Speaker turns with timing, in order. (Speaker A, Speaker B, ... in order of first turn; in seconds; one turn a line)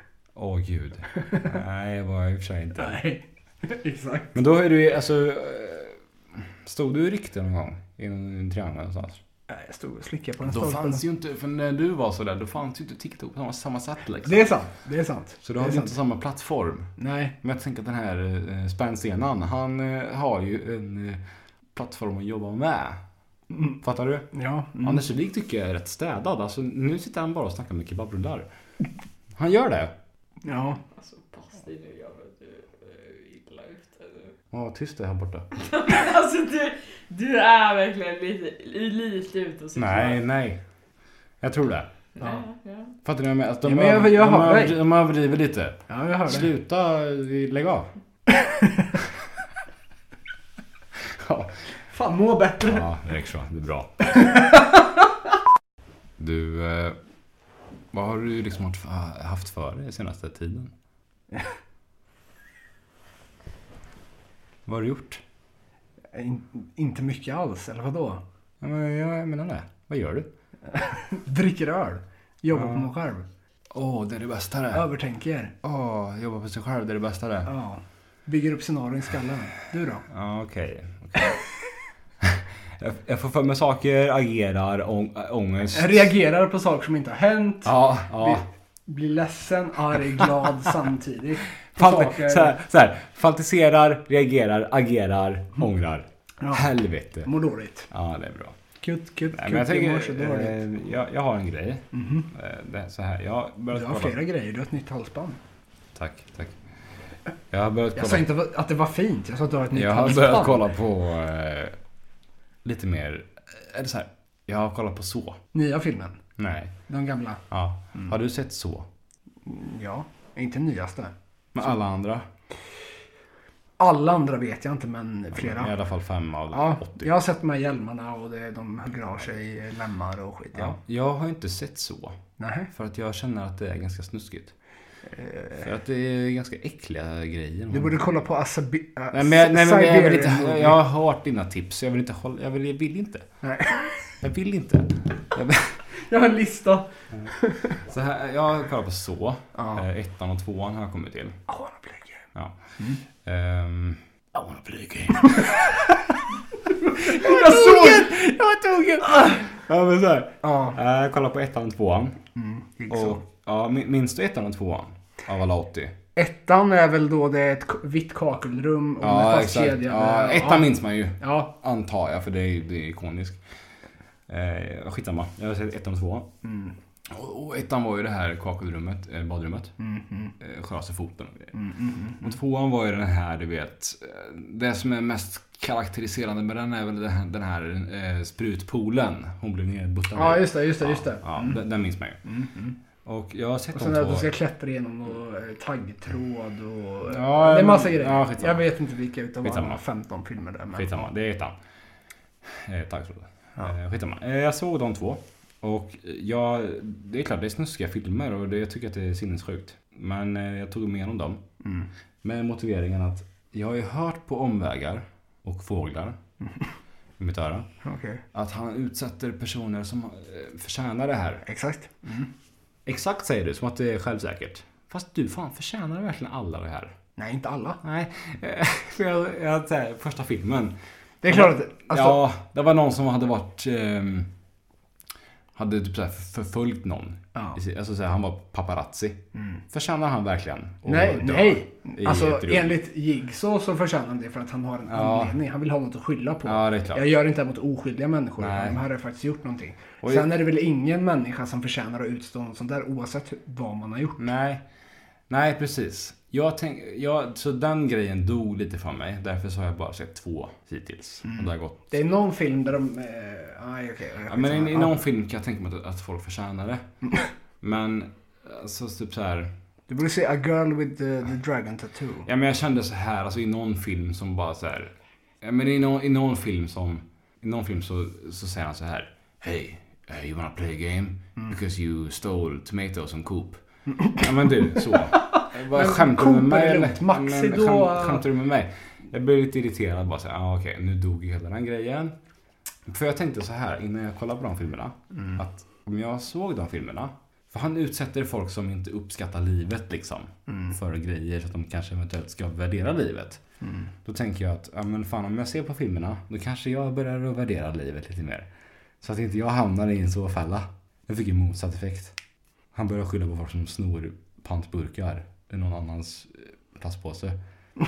Speaker A: 0.3-3.0
Speaker B: 2.8-4.3
Speaker A: 4.3-9.2
Speaker B: 9.5-11.0
Speaker A: 10.4-14.5
Speaker B: 14.2-15.9
Speaker A: 15.4-21.2
Speaker B: 17.0-17.3
Speaker A: 21.8-23.0
Speaker B: 23.5-23.8
Speaker A: 23.8-24.3
Speaker B: 24.3-25.0
Speaker A: 24.8-28.5
Speaker A: 29.4-29.9
Speaker B: 30.4-30.8
Speaker C: 30.9-34.4
Speaker A: 34.5-35.5
Speaker C: 35.6-40.2
Speaker A: 39.8-40.6
Speaker A: 41.4-41.9
Speaker C: 42.2-43.0
Speaker A: 43.0-47.9
Speaker B: 43.6-44.8
Speaker B: 45.9-46.5
Speaker B: 48.4-49.0
Speaker A: 51.0-51.5
Speaker B: 51.9-52.9
Speaker A: 52.7-54.4
Speaker B: 54.0-55.0
Speaker A: 56.2-57.0
Speaker A: 57.9-60.7
Speaker A: 64.7-65.2
Speaker B: 66.1-68.2
Speaker A: 68.6-70.3
Speaker B: 70.7-73.3
Speaker A: 72.5-72.9
Speaker A: 73.7-74.8
Speaker B: 74.7-75.5
Speaker A: 75.6-77.5
Speaker B: 77.5-80.0
Speaker A: 80.1-81.4
Speaker A: 82.2-86.1
Speaker B: 85.7-92.5
Speaker A: 87.7-88.5
Speaker A: 90.2-90.4
Speaker A: 91.8-97.3
Speaker B: 96.4-96.7
Speaker B: 97.2-97.9
Speaker A: 97.9-98.6
Speaker B: 98.8-100.6
Speaker A: 99.3-104.2
Speaker B: 101.9-102.3
Speaker B: 103.7-105.4
Speaker A: 106.0-106.6
Speaker A: 107.5-108.3
Speaker B: 107.9-110.7
Speaker A: 109.7-111.8
Speaker A: 112.6-115.4
Speaker B: 115.5-116.2
Speaker A: 116.4-116.7
Speaker B: 116.9-117.4
Speaker A: 117.5-118.9
Speaker B: 119.5-121.1
Speaker A: 121.5-122.3
Speaker B: 123.8-125.7
Speaker A: 125.3-127.1
Speaker B: 126.5-130.8
Speaker A: 130.5-132.2
Speaker B: 132.4-132.7
Speaker A: 132.7-134.5
Speaker B: 135.1-135.7
Speaker A: 135.6-138.2
Speaker B: 137.7-140.8
Speaker A: 139.1-143.3
Speaker B: 143.4-144.1
Speaker A: 144.2-145.8
Speaker B: 145.9-147.8
Speaker A: 147.9-151.4
Speaker B: 149.6-149.8
Speaker B: 151.5-152.2
Speaker A: 153.1-155.9
Speaker B: 155.2-155.7
Speaker B: 156.8-158.1
Speaker A: 157.0-162.2
Speaker B: 160.4-160.8
Speaker B: 162.3-163.2
Speaker A: 162.9-165.9
Speaker B: 166.2-171.5
Speaker A: 169.0-173.4
Speaker A: 174.3-176.3
Speaker B: 176.4-176.8
Speaker A: 177.1-179.7
Speaker B: 179.8-180.3
Speaker A: 180.4-181.6
Speaker B: 181.5-182.3
Speaker A: 182.2-192.2
Speaker B: 190.1-191.6
Speaker B: 192.2-192.8
Speaker A: 193.1-194.3
Speaker B: 193.7-201.1
Speaker A: 197.1-198.7
Speaker A: 199.4-199.8
Speaker A: 200.7-201.6
Speaker A: 202.4-211.4
Speaker B: 211.6-211.9
Speaker A: 212.2-216.2
Speaker B: 216.4-216.7
Speaker A: 217.2-217.7
Speaker B: 217.8-218.2
Speaker A: 218.3-221.4
Speaker B: 221.4-222.3
Speaker A: 222.9-226.9
Speaker B: 227.2-227.8
Speaker A: 227.8-230.8
Speaker B: 231.2-232.2
Speaker A: 231.3-234.3
Speaker A: 235.6-242.8
Speaker B: 239.3-239.6
Speaker B: 240.8-254.3
Speaker A: 244.9-245.4
Speaker A: 246.4-247.0
Speaker A: 248.4-248.8
Speaker A: 250.0-250.3
Speaker A: 254.2-254.6
Speaker A: 255.3-261.9
Speaker B: 261.2-265.0
Speaker A: 264.3-266.8
Speaker A: 267.6-269.5
Speaker B: 269.9-272.3
Speaker A: 272.3-292.1
Speaker B: 283.9-288.3
Speaker A: 292.9-303.4
Speaker B: 295.1-295.4
Speaker B: 300.5-300.8
Speaker B: 303.6-303.9
Speaker A: 304.1-308.5
Speaker A: 309.0-312.1
Speaker A: 312.7-317.4